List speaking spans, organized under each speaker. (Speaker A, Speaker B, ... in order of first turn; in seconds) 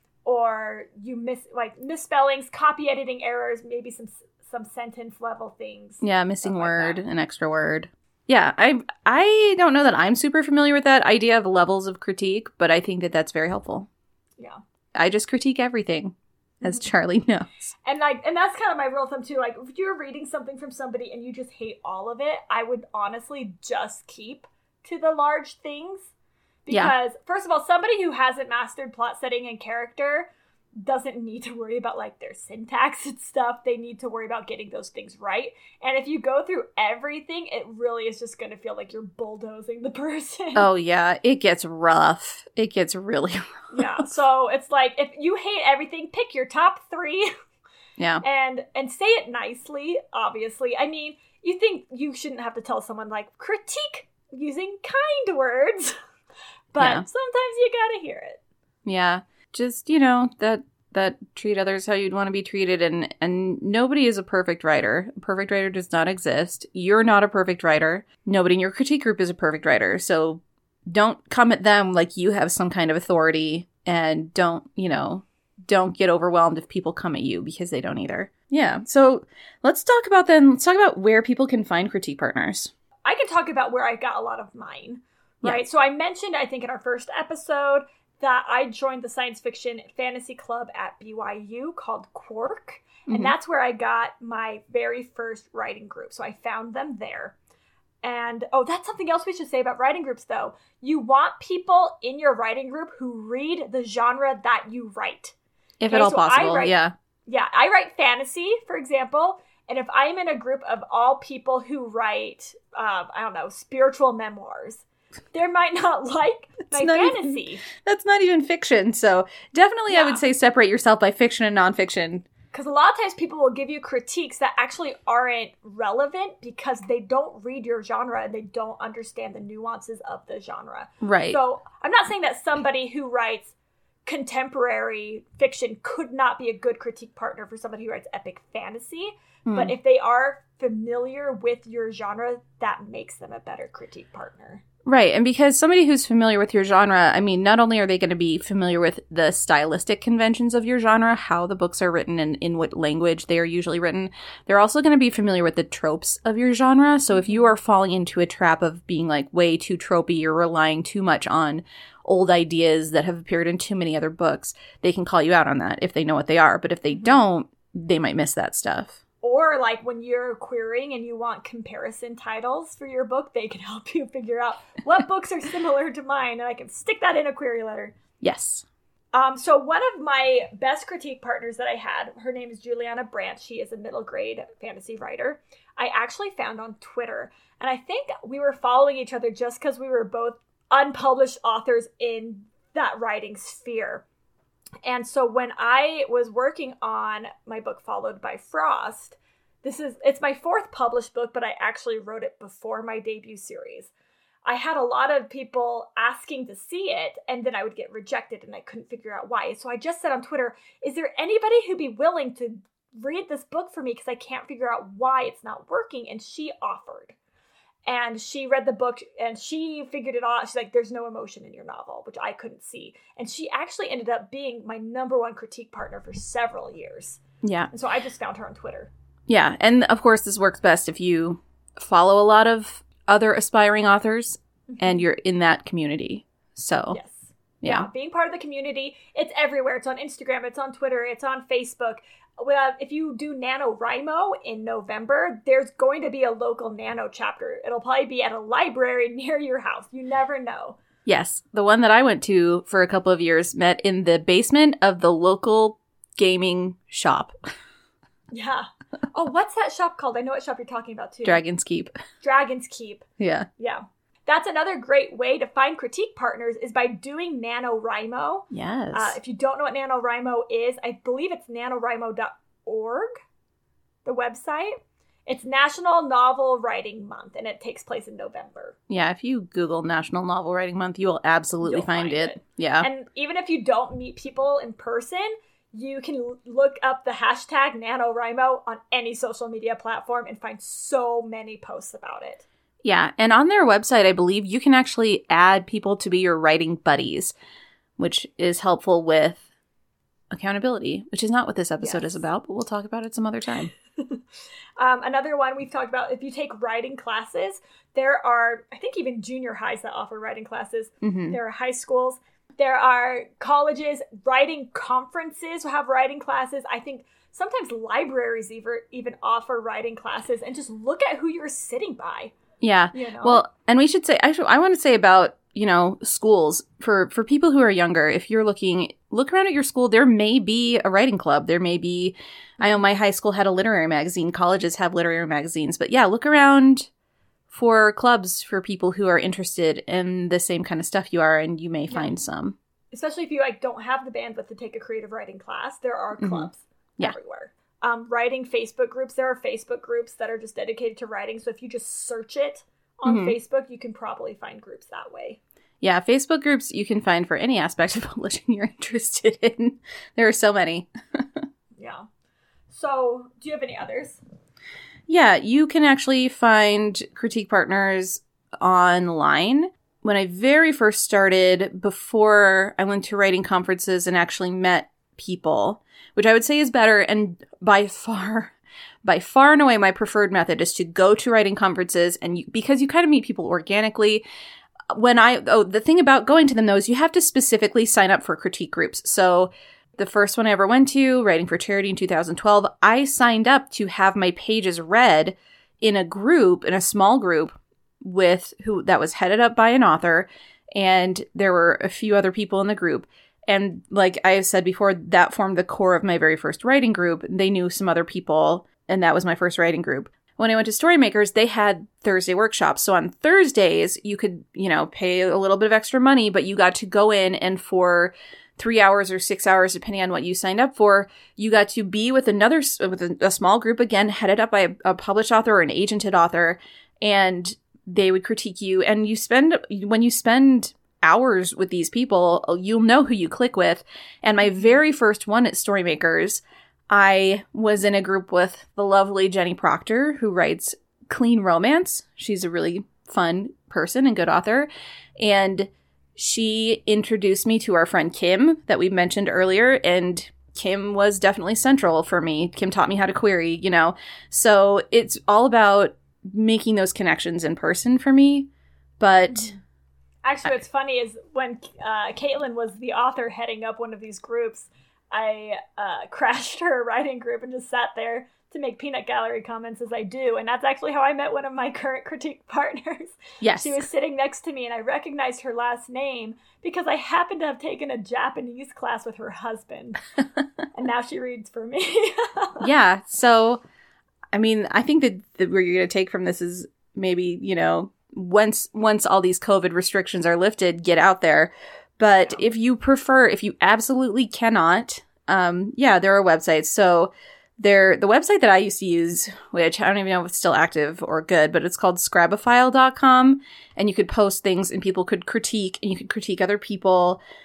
Speaker A: 0.2-7.0, 16.6-16.9, 17.9-26.1, 26.7-30.3, 30.8-40.7, 43.7-47.3, 48.2-56.0, 56.7-58.4, 83.0-97.3, 98.0-105.3, 105.9-106.7, 107.3-117.6, 119.9-120.2, 122.5-133.5, 134.1-144.6, 157.1-157.5, 169.2-177.9, 179.1-194.0, 194.8-203.9, 204.4-217.1, 217.8-228.9, 234.7-235.0, 236.9-250.8, 258.3-261.4, 262.2-263.1, 263.6-273.2, 274.0-274.7, 275.3-278.8, 281.6-292.4, 301.8-302.2, 303.9-304.2, 304.8-322.3, 322.9-323.4, 342.9-355.4, 361.8-362.0, 362.7-364.2, 460.2-480.0, 480.7-482.7
Speaker B: 6.0-13.9, 14.9-17.7, 26.7-26.9, 40.5-43.8, 48.0-48.2, 56.8-57.0, 58.8-82.7, 93.1-93.3, 105.8-106.9, 116.7-122.2, 131.0-131.4, 139.4-139.7, 144.8-169.0, 178.2-178.6, 227.4-227.7, 229.3-237.0, 237.6-237.9, 251.1-257.3, 261.2-261.9, 263.2-263.5, 268.5-269.2, 278.9-282.9, 292.8-297.3, 298.0-299.4, 300.3-303.7, 311.0-311.4, 322.6-336.9, 337.5-342.6, 346.2-347.1, 353.1-353.4, 355.8-361.4, 365.1-384.2, 384.9-459.5, 473.4-473.9, 482.6-483.6, 484.3-507.2